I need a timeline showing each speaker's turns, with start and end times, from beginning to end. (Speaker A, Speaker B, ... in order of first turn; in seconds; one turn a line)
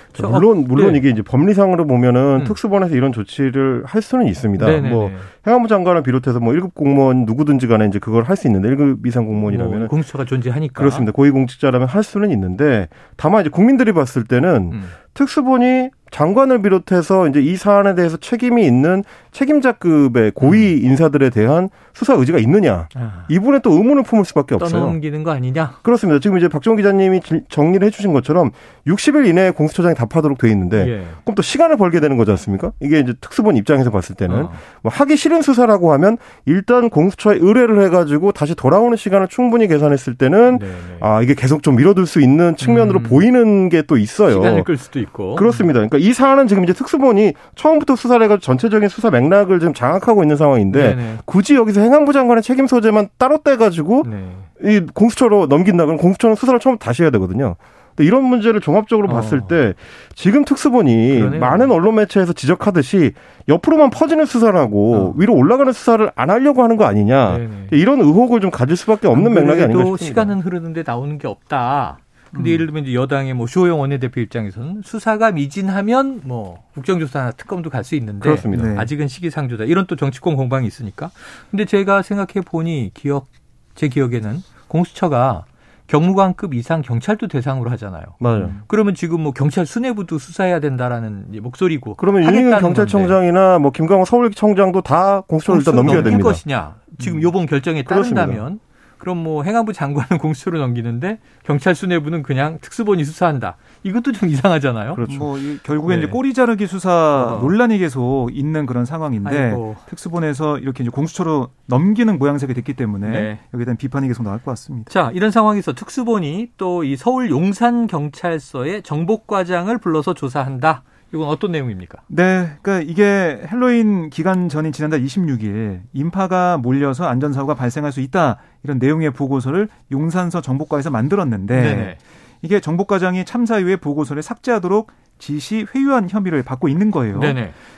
Speaker A: 0.1-1.0
Speaker B: 0.1-9.9
Speaker A: 4.6-5.3
Speaker A: 9.5-11.1
Speaker B: 10.8-25.0
Speaker A: 22.9-23.3
Speaker A: 24.6-25.8
Speaker B: 25.8-44.7
Speaker A: 30.8-31.2
Speaker A: 34.3-34.6
Speaker A: 40.5-41.1
Speaker A: 42.6-43.2
Speaker A: 44.3-45.6
Speaker B: 45.3-70.3
Speaker A: 50.7-51.2
Speaker A: 54.0-54.5
Speaker A: 59.1-59.6
Speaker A: 61.1-61.7
Speaker A: 64.9-65.2
Speaker A: 67.3-67.8
Speaker A: 69.1-93.2
Speaker C: 72.3-72.7
Speaker B: 78.2-78.8
Speaker C: 78.5-78.9
Speaker B: 88.2-88.6
Speaker B: 92.0-96.4
Speaker A: 95.5-105.0
Speaker C: 95.9-96.2
Speaker B: 97.9-98.4
Speaker B: 104.9-105.3
Speaker C: 105.0-114.9
Speaker A: 105.8-106.2
Speaker A: 107.2-107.5
Speaker A: 109.2-109.8
Speaker A: 113.0-113.4
Speaker A: 114.9-122.0
Speaker C: 122.1-137.4
Speaker A: 131.5-132.0
Speaker A: 137.1-137.6